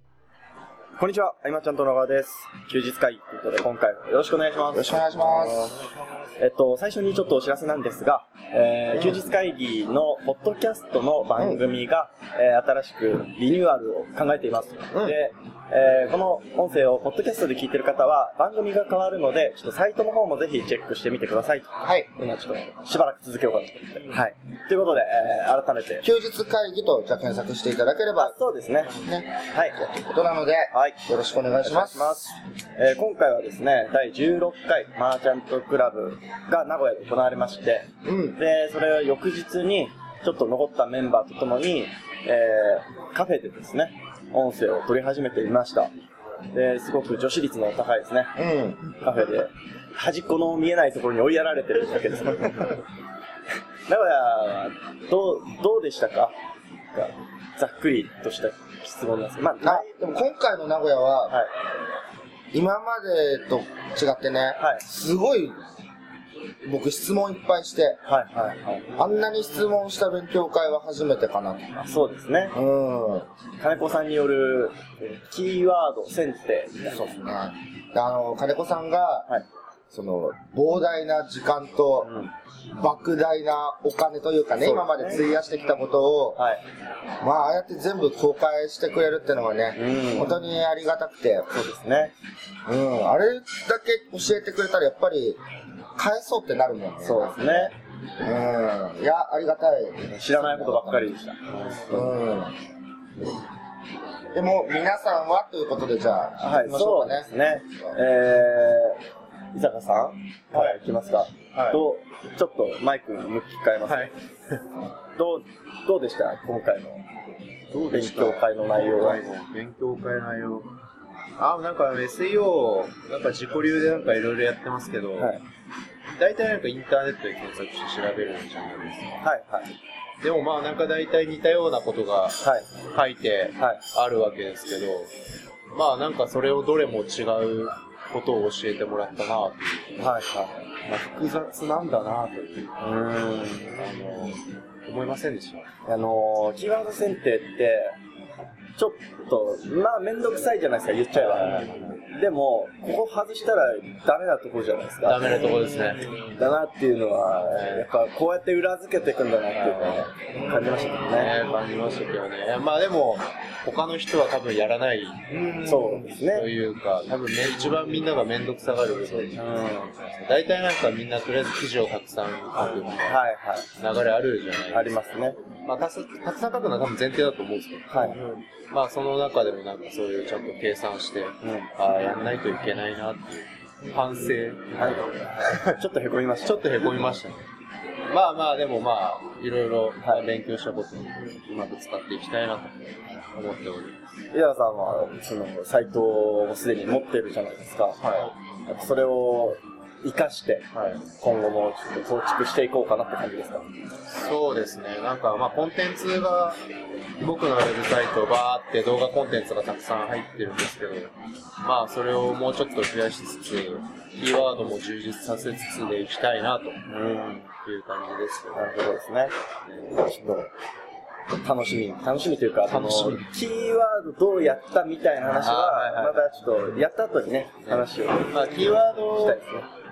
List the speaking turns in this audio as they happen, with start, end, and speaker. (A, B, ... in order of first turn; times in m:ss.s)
0:01.0-0:05.7 A
0:04.7-0:05.7 B
0:06.4-0:26.0 A
0:11.4-0:11.6 B
0:14.9-0:15.2 B
0:21.8-0:22.1 B
0:26.0-0:32.2 B
0:28.2-0:29.8 A
0:30.7-0:31.0 A
0:31.6-0:45.9 A
0:38.0-0:38.4 B
0:46.5-0:48.3 A
0:48.4-0:48.8 B
0:49.0-0:52.8 A
0:53.9-0:56.3 A
0:56.9-0:59.9 A
0:59.6-1:01.4 B
1:02.5-1:05.6 B
1:04.6-1:04.8 A
1:06.6-1:11.7 B
1:08.0-1:08.8 A
1:11.8-1:12.5 A
1:12.5-1:13.3 B
1:13.6-1:17.0 A
1:16.8-1:19.3 B
1:19.9-1:22.1 B
1:22.0-1:22.3 A
1:22.7-1:26.4 B
1:24.6-1:25.2 A
1:26.4-1:26.6 A
1:27.2-1:31.5 B
1:29.8-1:30.4 A
1:31.5-1:32.1 A
1:32.6-1:35.4 B
1:36.0-1:41.1 B
1:37.0-1:37.7 A
1:40.1-1:42.1 A
1:41.9-1:42.6 B
1:44.3-1:48.0 B
1:46.4-1:49.0 A
1:49.5-1:54.1 A
1:50.5-1:50.8 C
1:53.9-1:54.1 C
1:55.2-1:57.0 A
1:57.7-2:00.7 C
1:57.9-1:59.2 A
2:01.4-2:05.3 C
2:05.2-2:05.4 A
2:06.2-2:09.2 C
2:09.2-2:09.7 A
2:10.2-2:15.1 C
2:15.7-2:20.1 C
2:20.0-2:20.6 A
2:20.8-2:22.8 C
2:22.8-2:23.7 A
2:23.5-2:25.6 C
2:25.8-2:27.9 A
2:28.8-2:41.3 A
2:31.1-2:32.0 C
2:35.0-2:36.4 C
2:37.5-2:37.9 C
2:39.7-2:53.2 C
2:45.6-2:46.5 A
2:49.4-2:49.9 A
2:52.9-2:53.7 A
2:53.8-2:55.0 C
2:54.7-2:55.4 A
2:55.6-3:05.8 C
2:57.9-2:58.2 A
3:01.4-3:02.0 A
3:04.8-3:05.2 A
3:05.7-3:06.6 A
3:06.4-3:07.4 C
3:08.1-3:12.7 C
3:10.0-3:10.3 A
3:13.3-3:14.0 C
3:14.3-3:23.6 A
3:18.0-3:18.3 C
3:24.1-3:26.6 C
3:27.2-3:36.8 C
3:36.9-3:37.5 A
3:37.6-3:38.8 C
3:38.5-3:39.3 A
3:40.0-3:40.5 A
3:41.3-3:49.7 A
3:42.7-3:43.3 C
3:45.4-3:46.3 C
3:47.7-3:49.4 C